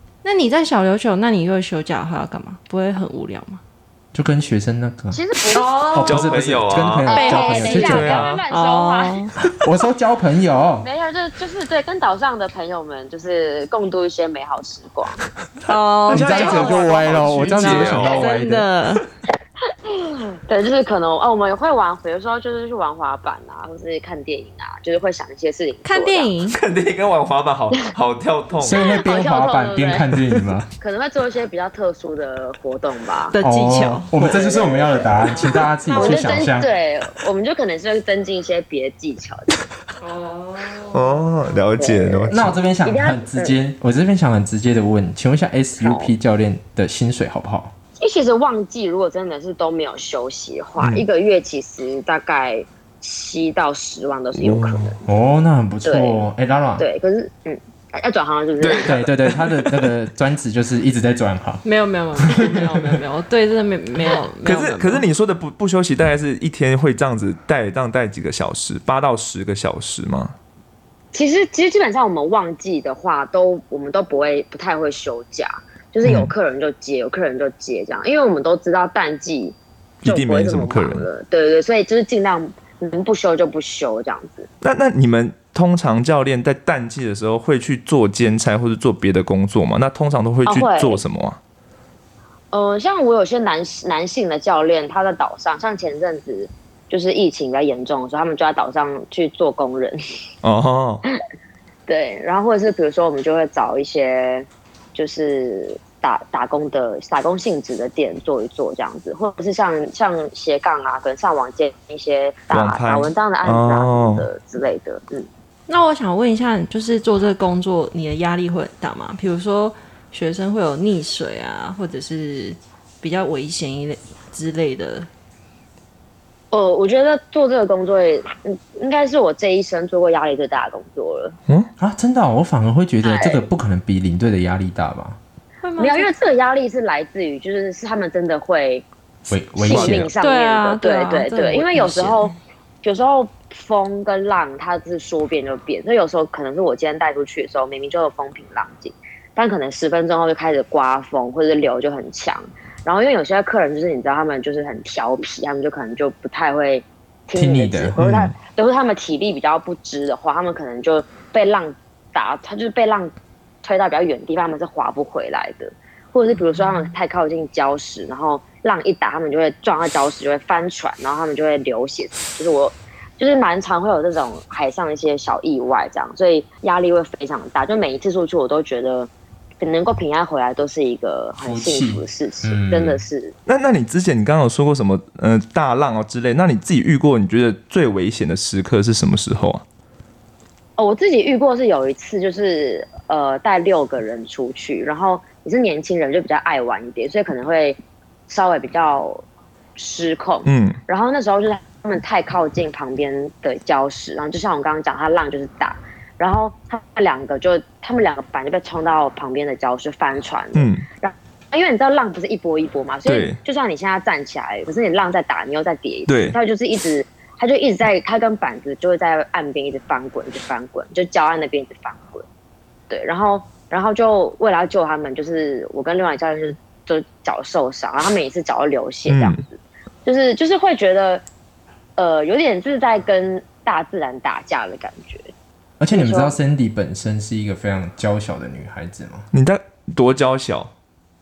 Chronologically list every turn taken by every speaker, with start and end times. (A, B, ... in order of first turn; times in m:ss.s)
0:00.2-0:03.6 A
0:04.1-0:08.4 B
0:05.1-0:05.8 C
0:05.5-0:06.3 A
0:06.0-0:08.4 D
0:07.0-0:09.2 C
0:07.1-0:09.3 A
0:09.5-0:10.9 B
0:10.8-0:15.2 C
0:15.6-0:18.3 D
0:15.7-0:19.0 A
0:16.1-0:18.7 B
0:19.9-0:26.3 C
0:25.8-0:26.6 A
0:26.5-0:28.8 D
0:28.6-0:30.7 B
0:29.0-0:30.1 C
0:30.8-0:33.4 C
0:33.3-0:34.1 A
0:33.4-0:36.7 B
0:34.2-0:39.5 C
0:35.3-0:36.3 A
0:40.0-0:41.2 A
0:40.9-0:42.5 D
0:41.8-0:43.6 C
0:42.3-0:47.7 B
0:45.8-0:46.1 C
0:48.0-0:55.0 C
0:54.4-0:54.9 D
0:55.1-0:56.9 B
0:55.8-0:56.2 C
0:56.8-0:59.0 C
0:58.6-0:59.9 D
0:58.8-1:01.6 B
1:01.6-1:05.1 A
1:02.2-1:02.8 B
1:04.4-1:10.4 D
1:11.1-1:24.5 C
1:16.0-1:16.3 D
1:20.0-1:21.1 D
1:24.6-1:31.4 D
1:30.4-1:31.0 C
1:32.5-1:40.0 C
1:40.4-1:41.0 D
1:41.9-1:55.3 C
1:52.5-1:54.3 D
1:55.7-2:05.1 A
2:06.5-2:11.4 C
2:11.8-2:15.2 B
2:13.0-2:13.4 C
2:15.6-2:16.1 A
2:15.8-2:18.9 C
2:19.3-2:20.1 B
2:19.6-2:22.3 C
2:19.7-2:20.0 D
2:19.8-2:22.3 A
2:22.8-3:03.4 C
2:37.4-2:38.3 B
2:38.0-2:38.3 D
3:01.4-3:03.0 B
3:03.5-3:09.6 D
3:10.8-3:19.2 C
3:19.8-3:42.3 C
3:20.5-3:20.8 D
3:30.6-3:30.8 D
3:33.1-3:33.4 D
3:36.1-3:36.4 D
3:42.9-3:51.2 C
3:49.1-3:49.4 D
3:52.0-3:55.3 C
3:55.8-3:59.3 B
3:55.9-3:56.4 C
3:59.3-4:00.7 D